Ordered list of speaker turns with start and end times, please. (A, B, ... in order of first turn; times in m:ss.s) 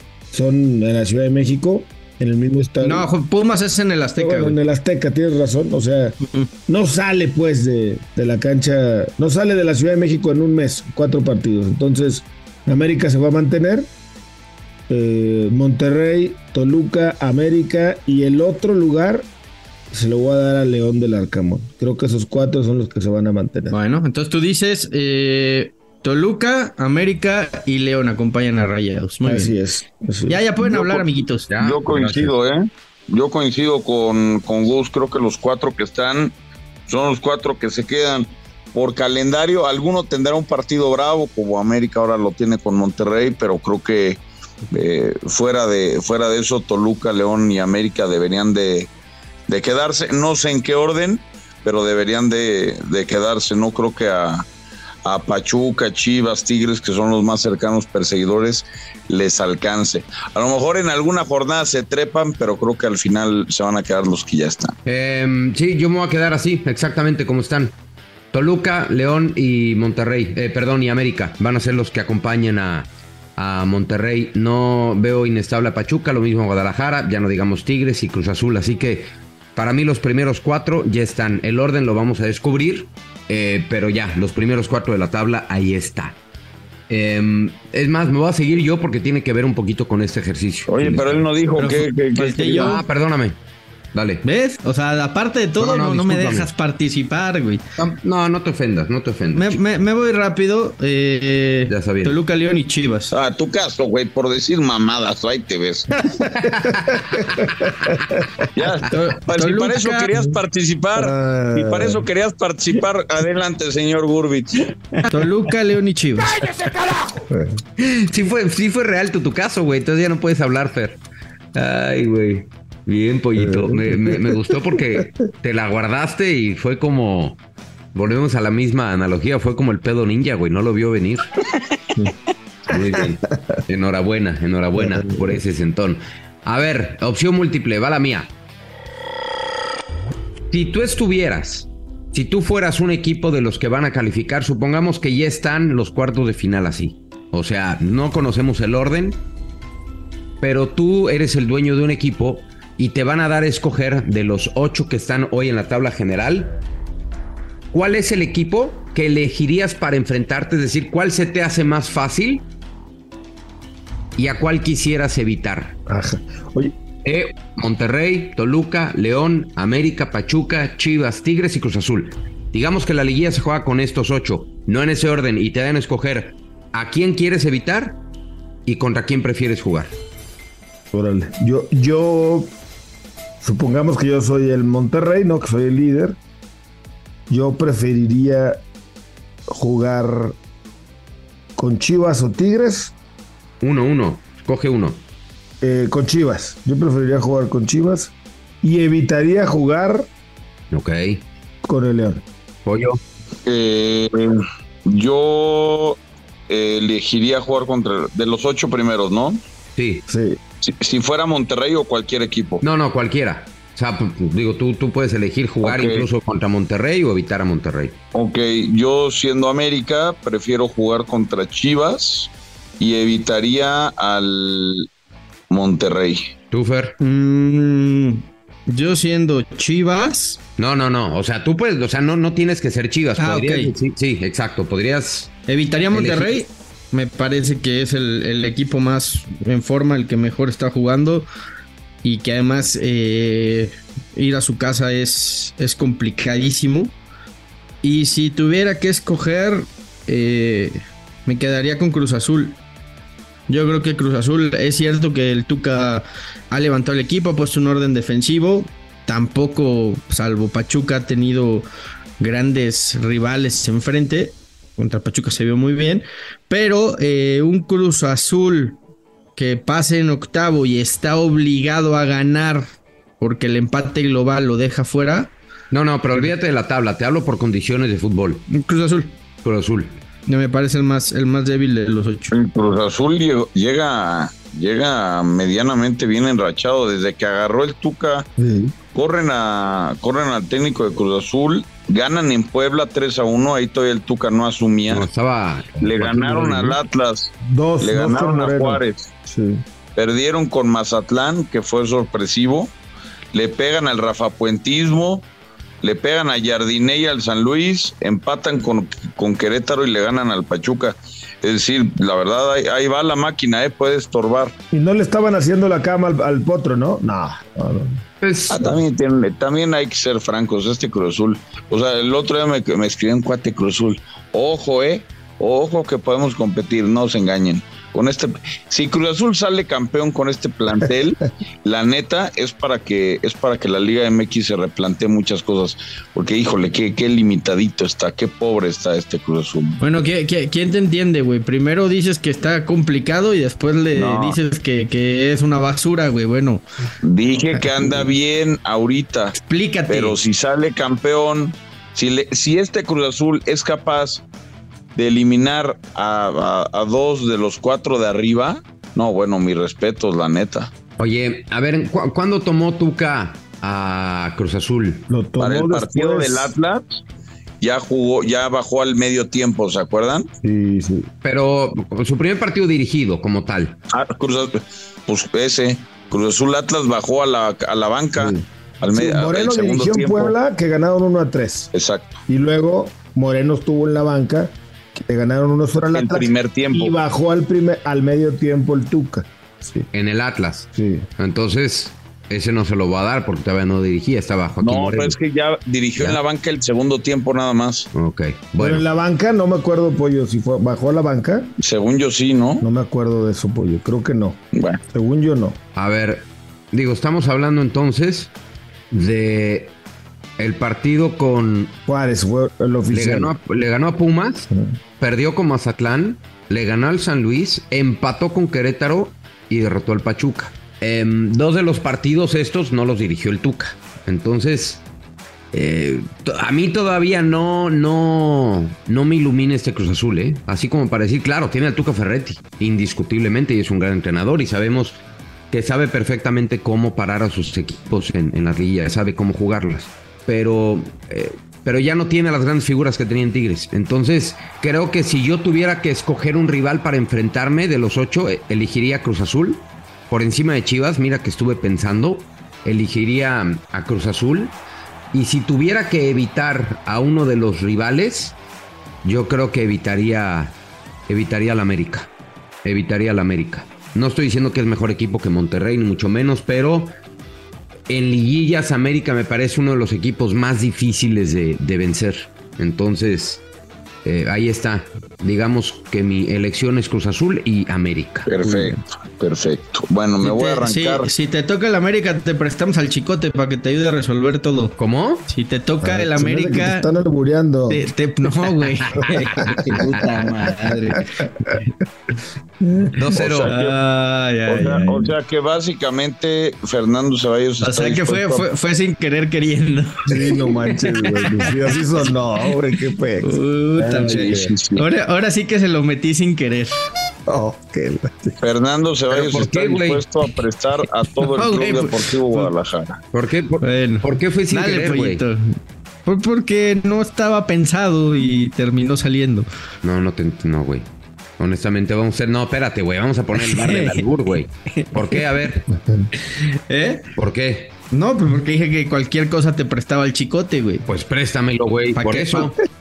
0:00.3-0:03.1 A
0:02.8-0:04.6 B
0:04.2-0:13.9 A
0:14.9-0:19.3 A
0:19.9-0:23.8 A
0:23.7-0:29.5 B
0:29.2-0:31.0 A
0:30.3-0:31.5 B
0:31.5-0:32.3 C
0:31.6-0:36.4 D
0:36.9-0:48.9 D
0:49.5-0:54.5 D
0:55.0-1:04.8 D
1:04.9-1:07.7 C
1:08.3-1:26.2 C
1:26.9-1:31.2 C
1:30.7-1:32.8 D
1:31.6-1:32.8 B
1:32.6-1:33.4 C
1:33.9-1:34.2 C
1:34.2-1:37.6 B
1:35.6-1:36.5 C
1:37.8-1:39.6 C
1:39.3-1:43.1 B
1:41.7-1:42.2 C
1:43.1-1:45.9 D
1:46.0-1:48.3 A
1:48.5-1:54.7 D
1:48.9-1:50.1 B
1:51.0-1:52.0 A
1:55.1-1:56.4 B
1:57.3-1:57.6 A
1:57.8-2:01.0 C
2:01.5-2:07.4 C
2:03.4-2:05.0 A
2:07.9-2:11.3 C
2:12.7-2:18.3 C
2:12.7-2:13.6 A
2:14.8-2:15.4 A
2:20.5-2:29.2 C
2:30.4-2:36.5 C
2:37.7-2:42.4 C
2:44.2-2:45.8 C
2:45.9-2:46.8 A
2:47.0-2:58.0 C
2:58.7-2:59.9 C
3:00.9-3:02.5 A
3:03.4-3:06.2 A
3:07.3-3:08.6 A
3:09.5-3:10.4 A
3:11.6-3:12.9 A
3:13.6-3:15.0 C
3:15.6-3:20.1 A
3:20.7-3:21.2 C
3:21.6-3:22.2 A
3:22.7-3:23.0 C
3:23.4-3:29.4 D
3:29.8-3:30.0 C
3:30.1-3:30.4 A
3:30.6-3:32.6 D
3:32.6-3:38.0 C
3:35.6-3:36.1 D
3:38.1-3:44.9 D
3:45.5-3:46.3 D
3:46.5-3:46.9 C
3:47.0-3:50.4 B
3:50.6-3:55.3 C
3:53.2-3:53.7 B
3:55.5-4:01.3 B
3:55.9-3:56.4 C
4:02.0-4:06.9 B
4:07.8-4:12.6 B
4:13.5-4:21.7 B
4:22.2-4:28.8 B
4:29.4-4:32.6 B
4:33.2-4:35.3 B
4:35.7-4:38.5 C
4:38.5-4:39.1 B
4:39.4-4:40.0 C
4:40.3-4:42.3 B
4:42.3-4:48.3 D
4:48.4-4:48.8 A
4:48.9-4:55.1 D
4:54.9-4:56.8 C
4:55.8-4:59.1 D
4:57.4-4:59.6 A
5:00.0-5:02.7 D
5:03.3-5:05.3 D
5:05.8-5:14.5 D
5:14.7-5:18.0 A
5:18.2-5:18.6 C
5:18.5-5:39.8 D
5:39.8-5:46.6 B
5:44.0-5:44.4 D
5:47.0-5:49.4 D
5:49.4-5:50.2 B
5:49.9-5:54.2 D
5:55.0-6:00.7 D
6:01.0-6:05.1 C
6:05.1-6:06.5 A
6:05.4-6:07.0 D
6:07.6-6:10.3 D
6:10.4-6:11.1 A
6:11.2-6:13.8 C
6:13.9-6:20.3 D
6:18.2-6:21.7 A
6:21.7-6:22.2 D
6:22.3-6:29.9 A
6:25.9-6:27.0 D
6:29.9-6:35.2 C
6:30.7-6:31.1 A
6:34.6-6:37.9 D
6:37.9-6:38.8 C
6:38.6-6:41.5 A
6:41.6-6:42.6 D
6:42.6-6:44.4 A
6:44.5-6:44.8 D
6:44.9-6:45.6 A
6:45.8-6:48.3 C
6:48.9-6:49.7 C
6:50.4-6:51.8 C
6:51.9-6:53.4 A
6:52.9-6:54.5 C
6:54.5-6:54.8 A
6:55.0-7:04.8 C
7:05.5-7:15.0 C
7:15.5-7:34.6 C
7:35.1-7:38.4 C
7:39.0-7:40.6 C
7:41.1-7:42.1 C
7:42.6-7:46.9 C
7:47.9-7:53.4 C
7:54.0-7:58.7 C
7:58.3-8:01.1 D
8:00.2-8:04.8 B
8:04.8-8:05.3 C
8:05.3-8:06.9 B
8:05.8-8:07.8 A
8:07.7-8:11.7 B
8:09.0-8:09.9 A
8:09.3-8:10.0 C
8:11.0-8:11.5 A
8:12.6-8:13.3 A
8:13.0-8:13.5 C
8:13.2-8:13.7 D
8:13.4-8:14.8 B
8:14.5-8:18.4 D
8:14.6-8:15.1 A
8:17.6-8:21.5 B
8:20.1-8:24.5 A
8:23.2-8:26.7 B
8:24.1-8:24.8 D
8:27.3-8:28.4 A
8:28.4-8:33.0 D
8:29.1-8:30.0 C
8:31.3-8:32.5 B
8:33.1-8:35.2 C
8:33.6-8:35.5 B
8:36.1-8:39.5 B
8:39.8-8:45.6 C
8:43.3-8:44.1 B
8:44.7-8:45.5 B
8:45.7-8:46.1 A
8:46.2-8:47.0 B
8:47.2-8:47.7 C
8:47.9-8:50.9 B
8:50.9-8:52.6 C
8:52.0-8:52.5 B